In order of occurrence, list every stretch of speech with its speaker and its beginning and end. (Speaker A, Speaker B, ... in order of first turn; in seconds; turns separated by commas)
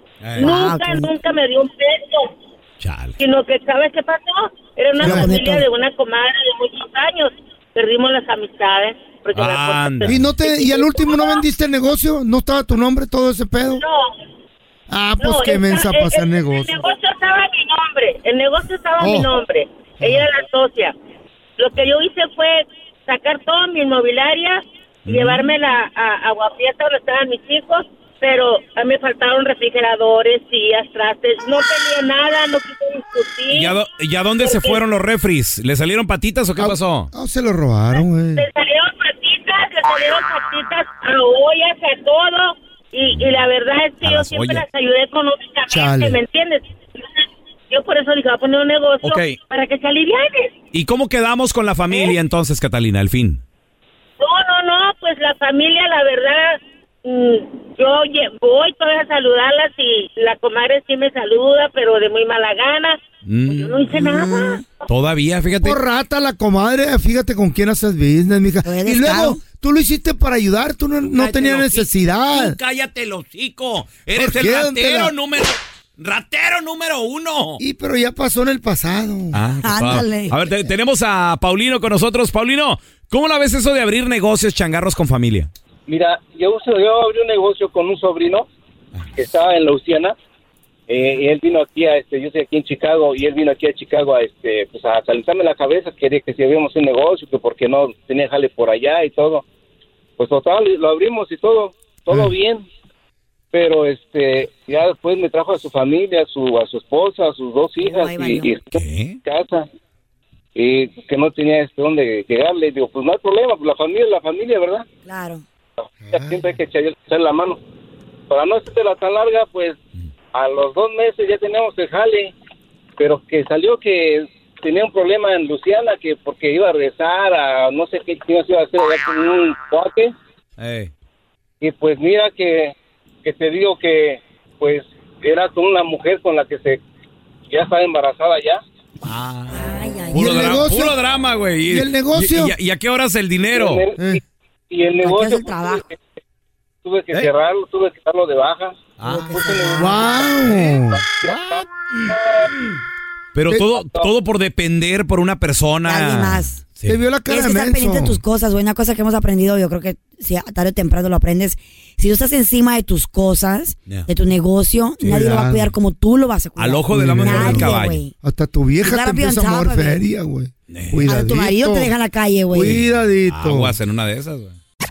Speaker A: 0.2-0.6, Speaker B: 0.3-2.3, Speaker C: 0.4-1.1, Speaker A: 2.8-3.2, Speaker B: 3.2-11.4, Speaker D: 5.0-5.3, Speaker C: 5.0-5.7, Speaker A: 9.3-10.3, Speaker D: 10.1-13.8, Speaker B: 13.8-14.1, Speaker D: 14.9-16.8, Speaker B: 15.2-20.9, Speaker D: 19.0-19.3, Speaker B: 21.6-33.8, Speaker A: 25.1-25.5, Speaker A: 33.5-37.1, Speaker B: 34.4-34.8, Speaker D: 36.6-38.5, Speaker B: 37.9-50.5, Speaker A: 43.1-43.4, Speaker A: 44.0-44.6, Speaker D: 45.7-46.2, Speaker A: 49.0-49.4, Speaker A: 50.7-53.4, Speaker B: 54.2-64.6, Speaker A: 63.2-63.9, Speaker C: 63.9-64.6, Speaker A: 64.9-65.8, Speaker D: 65.5-72.6, Speaker C: 68.7-69.4, Speaker A: 71.1-77.6, Speaker D: 74.2-75.1, Speaker D: 77.6-79.4, Speaker A: 79.3-85.5, Speaker C: 79.6-80.6, Speaker E: 85.9-88.5, Speaker E: 89.2-90.2, Speaker E: 90.9-99.4, Speaker E: 100.2-102.7, Speaker E: 103.5-109.7, Speaker C: 107.8-108.5, Speaker A: 108.7-109.2, Speaker E: 110.5-114.8, Speaker C: 115.1-115.4, Speaker D: 116.1-116.5, Speaker E: 116.1-117.6, Speaker E: 118.3-119.8, Speaker E: 120.3-122.3, Speaker E: 123.0-130.1, Speaker A: 130.6-130.9, Speaker E: 131.6-136.8, Speaker E: 137.5-138.6, Speaker A: 139.0-143.8, Speaker C: 139.6-140.6, Speaker D: 140.1-141.0, Speaker D: 141.7-142.5, Speaker E: 143.5-145.9, Speaker C: 145.0-145.9, Speaker E: 146.8-152.4, Speaker A: 149.0-149.4, Speaker C: 149.0-150.0, Speaker D: 149.8-151.1, Speaker A: 153.3-157.0, Speaker C: 155.9-156.6, Speaker D: 156.8-158.2, Speaker C: 157.3-168.1, Speaker D: 165.0-165.7, Speaker A: 166.6-168.0, Speaker D: 166.9-171.9, Speaker C: 168.8-170.0, Speaker A: 170.7-171.1, Speaker C: 171.1-172.8, Speaker D: 172.5-173.8, Speaker A: 173.3-174.6